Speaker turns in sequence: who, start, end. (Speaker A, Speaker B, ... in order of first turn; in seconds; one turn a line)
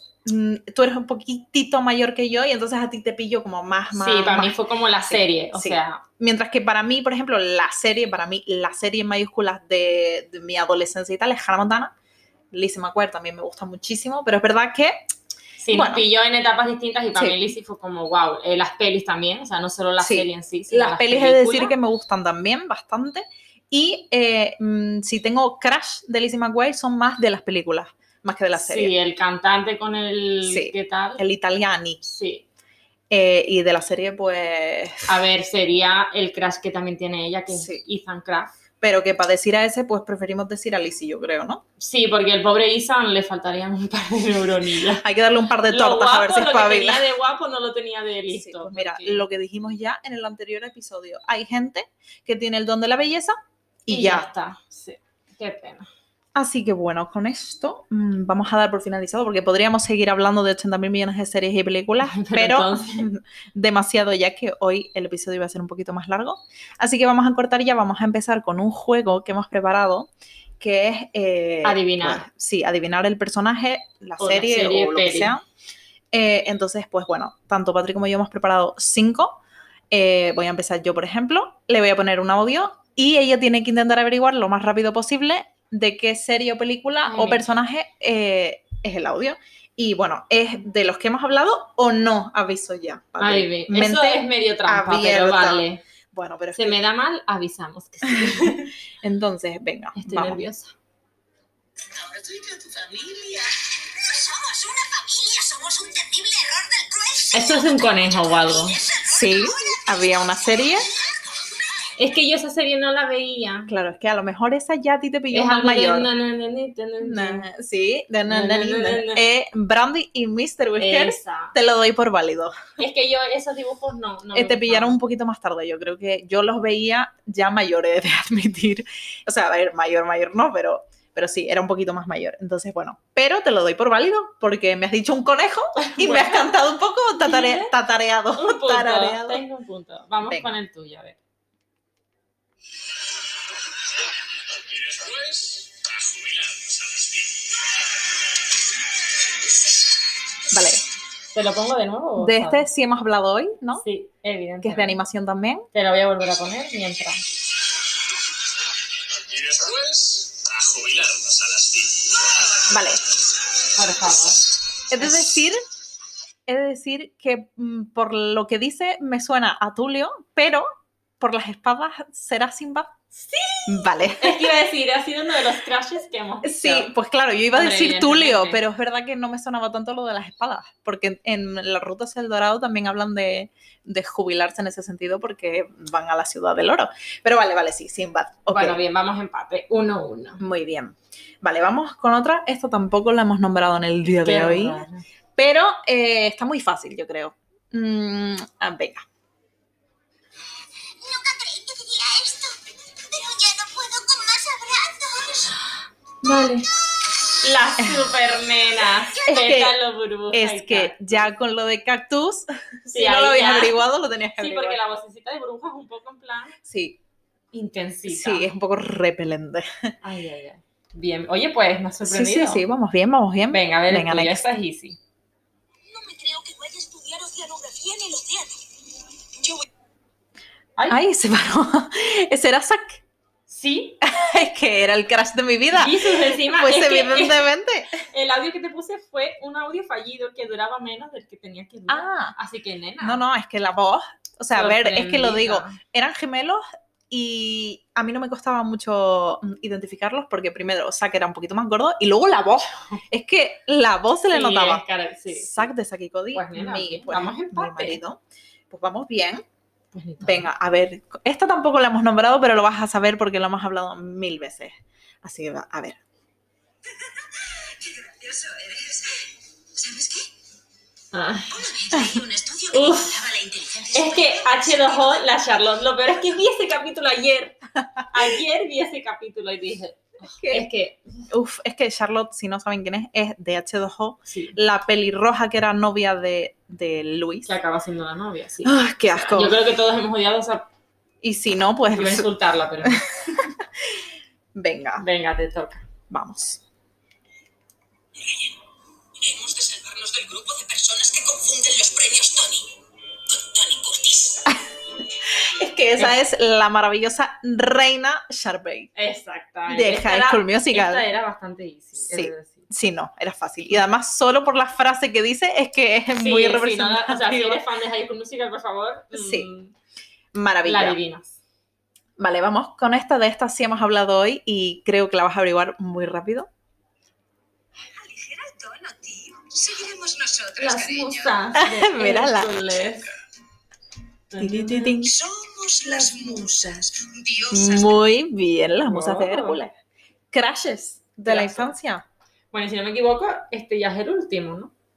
Speaker A: 0.2-11.9
Speaker B: 3.9-6.0
Speaker A: 12.5-15.1
Speaker B: 15.6-21.8
Speaker A: 15.7-16.1
Speaker A: 20.0-28.9
Speaker B: 28.5-31.2
Speaker A: 30.4-32.0
Speaker B: 32.0-32.5
Speaker A: 33.1-35.2
Speaker B: 35.1-38.5
Speaker A: 37.5-37.8
Speaker A: 38.8-41.6
Speaker B: 41.8-45.1
Speaker A: 45.0-47.1
Speaker B: 45.7-49.3
Speaker A: 48.3-53.4
Speaker A: 53.9-54.3
Speaker B: 53.9-55.9
Speaker A: 56.4-75.4
Speaker B: 62.0-63.1
Speaker B: 71.6-72.2
Speaker B: 74.2-75.4
Speaker A: 76.1-79.4
Speaker A: 79.9-96.8
Speaker B: 87.0-87.5
Speaker B: 93.2-95.8
Speaker B: 96.5-98.7
Speaker A: 98.1-100.4
Speaker B: 100.0-100.7
Speaker C: 101.8-110.8
Speaker B: 107.3-108.8
Speaker A: 109.1-110.9
Speaker C: 111.3-111.7
Speaker B: 112.0-113.7
Speaker A: 113.7-116.1
Speaker B: 115.3-117.5
Speaker A: 117.0-122.6
Speaker B: 118.3-119.2
Speaker B: 120.8-121.5
Speaker B: 122.8-125.0
Speaker A: 124.3-139.4
Speaker B: 135.8-137.8
Speaker B: 138.3-141.2
Speaker A: 140.2-140.6
Speaker C: 144.5-147.6
Speaker A: 150.5-150.8
Speaker B: 151.3-152.6
Speaker A: 152.2-153.8
Speaker B: 153.8-155.0
Speaker A: 154.6-155.6
Speaker B: 155.7-157.2
Speaker C: 159.3-162.7
Speaker A: 162.7-163.0
Speaker B: 163.8-165.2
Speaker A: 164.9-165.6
Speaker A: 166.5-170.7
Speaker A: 171.2-172.9
Speaker B: 173.2-176.9
Speaker A: 173.7-174.5
Speaker A: 176.4-188.8
Speaker B: 177.5-178.6
Speaker B: 188.5-190.4
Speaker A: 190.4-194.8
Speaker B: 194.2-195.0
Speaker A: 195.4-199.1
Speaker C: 201.0-205.5
Speaker A: 206.2-206.5
Speaker B: 206.3-206.6
Speaker B: 207.4-211.3
Speaker A: 207.8-208.1
Speaker A: 209.2-209.8
Speaker A: 210.3-214.8
Speaker B: 212.9-213.8
Speaker B: 214.4-216.6
Speaker A: 216.6-217.0
Speaker B: 217.5-218.5
Speaker A: 218.1-219.9
Speaker B: 220.0-222.6
Speaker A: 222.0-224.4
Speaker B: 223.5-225.0
Speaker C: 225.9-228.7
Speaker C: 229.3-229.7
Speaker A: 230.9-233.0
Speaker B: 233.5-234.0
Speaker A: 234.0-238.0
Speaker B: 235.7-237.4
Speaker B: 238.0-243.2
Speaker A: 241.9-242.4
Speaker A: 243.0-259.4
Speaker B: 244.5-245.8
Speaker B: 254.3-255.7
Speaker B: 256.3-258.0
Speaker B: 259.9-260.5
Speaker A: 260.2-266.0
Speaker C: 267.1-270.3
Speaker B: 271.1-271.6
Speaker C: 271.5-275.3
Speaker B: 272.7-273.2
Speaker B: 273.9-277.6
Speaker B: 278.1-281.0
Speaker A: 280.3-280.7
Speaker A: 281.3-287.6
Speaker B: 284.3-284.6
Speaker B: 287.4-290.7
Speaker A: 288.6-289.6
Speaker A: 291.2-292.3
Speaker B: 291.9-293.5
Speaker A: 292.8-294.0
Speaker A: 294.6-295.1
Speaker B: 295.0-295.8
Speaker A: 296.1-296.6
Speaker C: 298.2-298.6
Speaker C: 299.2-302.7
Speaker C: 303.3-304.6
Speaker A: 305.2-308.9
Speaker B: 309.0-312.7
Speaker A: 309.7-311.1
Speaker A: 312.0-317.6
Speaker B: 316.2-319.7
Speaker A: 319.1-319.5
Speaker A: 320.3-321.0
Speaker B: 320.6-321.3
Speaker A: 322.2-326.5
Speaker C: 328.0-331.4
Speaker B: 330.6-333.1
Speaker A: 331.6-332.6
Speaker B: 334.3-335.0
Speaker A: 334.4-335.2
Speaker C: 335.0-338.0
Speaker A: 337.5-339.7
Speaker B: 338.9-339.6
Speaker A: 340.3-342.1
Speaker B: 341.3-341.7
Speaker B: 342.5-344.7